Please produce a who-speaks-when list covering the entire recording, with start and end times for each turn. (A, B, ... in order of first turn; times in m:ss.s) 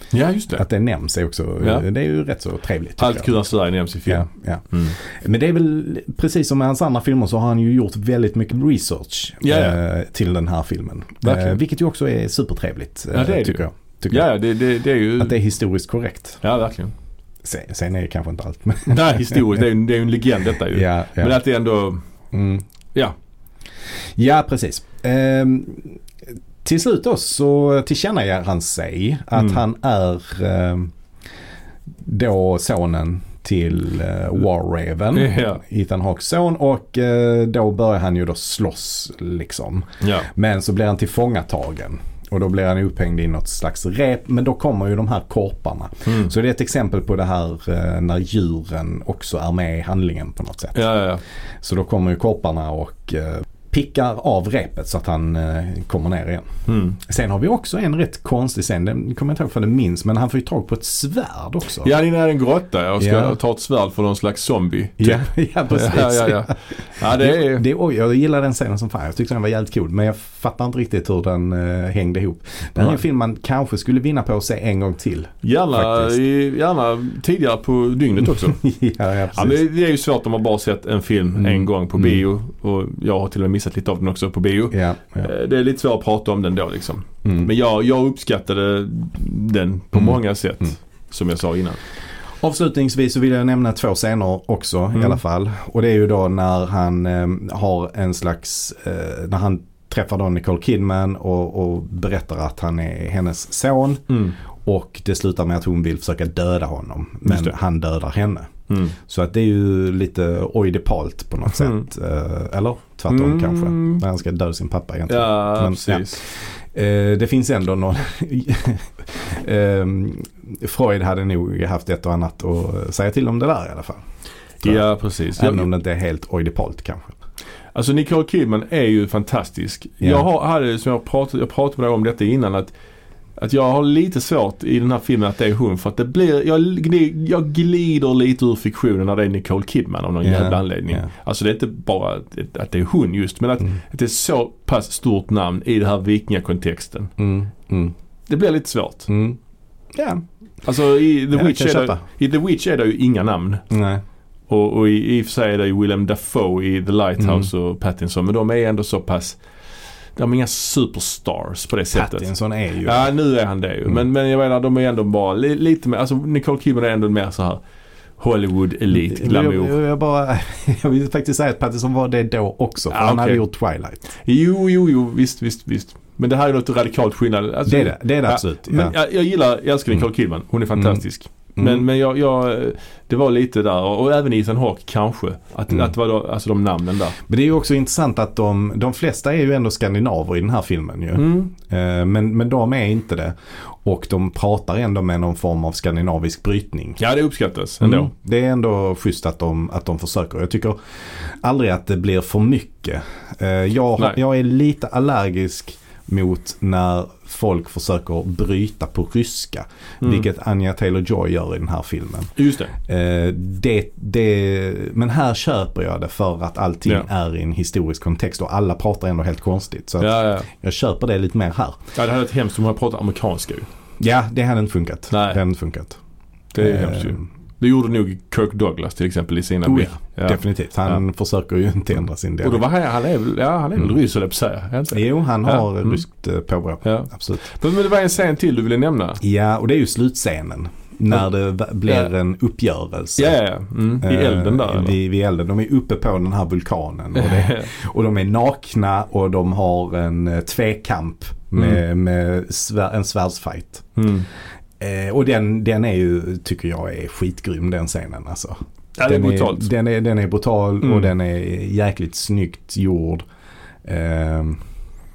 0:00.1-0:00.6 A
0:00.6-0:03.4 B
0:01.6-0:01.8 A
0:03.0-0:05.0 A
0:04.1-0:14.3 B
0:09.4-0:09.8 A
0:11.2-0:11.6 A
0:13.1-0:15.4 A
0:15.2-0:16.4 B
0:16.4-0:16.9 A
0:17.4-0:19.4 B
0:18.8-0:22.0 A
0:20.7-0:21.4 B
0:22.3-0:22.6 B
0:24.2-0:26.0 B
0:26.6-0:30.9 B
0:32.0-0:50.8 B
0:35.1-0:35.6 A
0:40.0-0:40.3 A
0:46.0-0:46.3 A
0:50.7-0:51.2 A
0:51.6-0:56.5 B
0:56.7-0:57.0 A
0:57.0-1:01.9 B
1:01.8-1:07.6 A
1:03.0-1:03.4 B
1:05.0-1:16.2 B
1:15.4-1:18.6 A
1:18.2-1:19.6 B
1:19.3-1:31.8 A
1:21.4-1:22.2 B
1:24.7-1:25.3 B
1:32.4-1:44.0 B
1:44.1-1:44.4 A
1:44.6-2:04.0 B
1:47.3-1:47.5 A
1:48.7-1:49.0 A
1:51.5-1:51.8 A
1:53.1-1:54.0 A
1:55.1-1:56.2 A
2:04.6-2:05.7 A
2:04.6-2:07.2 B
2:07.7-2:12.7 A
2:10.0-2:10.2 B
2:13.4-2:27.1 A
2:20.2-2:21.0 B
2:27.2-2:27.9 B
2:28.3-2:29.1 A
2:29.1-2:29.4 B
2:29.9-2:30.2 B
2:30.6-2:33.6 A
2:31.3-2:32.0 B
2:33.7-2:34.0 B
2:34.5-2:39.4 A
2:37.2-2:37.5 B
2:40.2-2:47.6 A
2:41.9-2:43.1 B
2:48.2-2:49.7 A
2:48.9-2:54.0 B
2:52.9-2:53.4 A
2:54.2-3:07.2 A
2:57.6-2:58.9 B
3:00.8-3:01.0 B
3:01.6-3:01.8 B
3:07.2-3:17.0 B
3:11.1-3:11.5 A
3:17.0-3:18.1 A
3:17.8-3:41.8 B
3:30.0-3:30.3 A
3:32.4-3:32.8 A
3:40.0-3:40.5 A
3:41.9-3:43.7 A
3:44.0-3:46.0 B
3:45.1-3:45.4 A
3:46.5-3:51.0 A
3:46.6-3:47.2 B
3:49.6-3:52.6 B
3:52.4-3:56.0 A
3:54.9-3:57.4 B
3:56.8-3:59.2 A
3:59.2-4:03.3 B
4:03.2-4:05.0 A
4:04.0-4:13.9 B
4:07.1-4:07.7 A
4:11.6-4:11.8 A
4:14.0-4:14.3 A
4:14.8-4:23.2 B
4:19.0-4:19.7 A
4:20.8-4:21.1 A
4:23.8-4:24.6 B